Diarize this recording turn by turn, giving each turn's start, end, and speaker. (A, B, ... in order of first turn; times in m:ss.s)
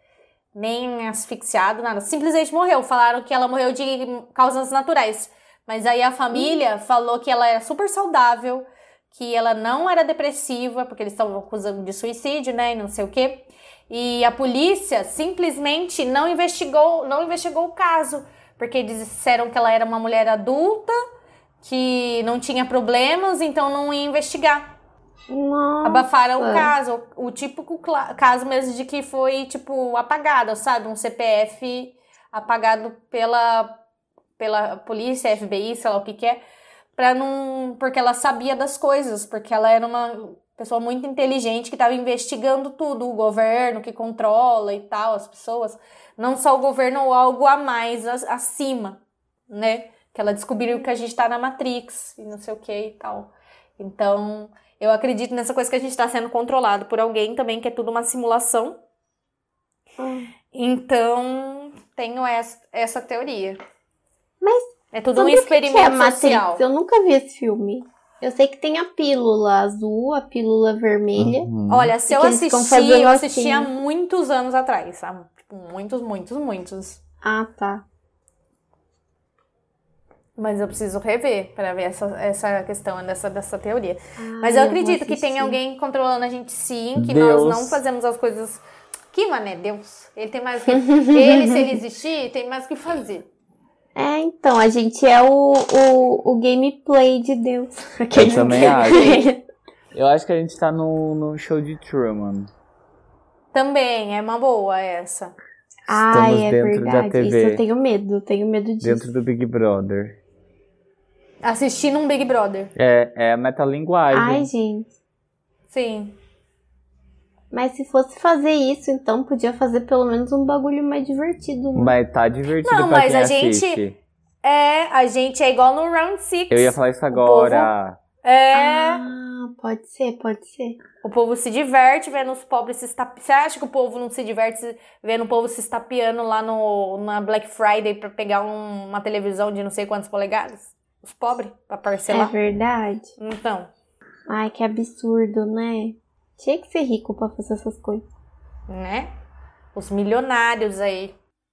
0:00.5-0:21.0 A
0:21.6-0:24.7 A
0:25.3-0:26.7 B
0:25.8-0:33.8 A
0:34.4-0:36.4 A
0:37.0-0:58.8 A
1:00.0-1:00.3 B
1:00.5-1:03.6 A
1:04.4-1:11.5 B
1:04.9-1:06.6 A
1:11.2-1:11.9 C
1:11.7-1:17.0 A
1:12.1-1:13.7 B
1:17.2-1:17.8 B
1:20.4-1:33.3 A
1:24.2-1:25.6 B
1:27.0-1:27.8 C
1:30.7-1:31.7 B
1:34.0-1:39.4 B
1:38.1-1:39.3 C
1:39.9-1:42.5 C
1:43.5-1:45.3 A
1:45.9-1:49.1 B
1:45.9-1:47.6 C
1:48.8-1:50.2 C
1:51.4-1:52.7 A
1:52.8-1:54.5 C
1:54.1-1:54.9 B
1:55.7-1:56.2 A
1:57.5-2:01.9 B
2:01.7-2:04.0 C
2:02.6-2:03.8 A
2:04.4-2:07.7 A
2:06.5-2:08.0 C
2:08.2-2:09.0 A
2:08.5-2:10.8 B
2:11.0-2:22.3 A
2:22.1-2:23.1 B
2:23.2-2:23.7 A
2:24.3-2:28.0 B
2:28.7-2:29.1 A
2:29.7-2:31.1 A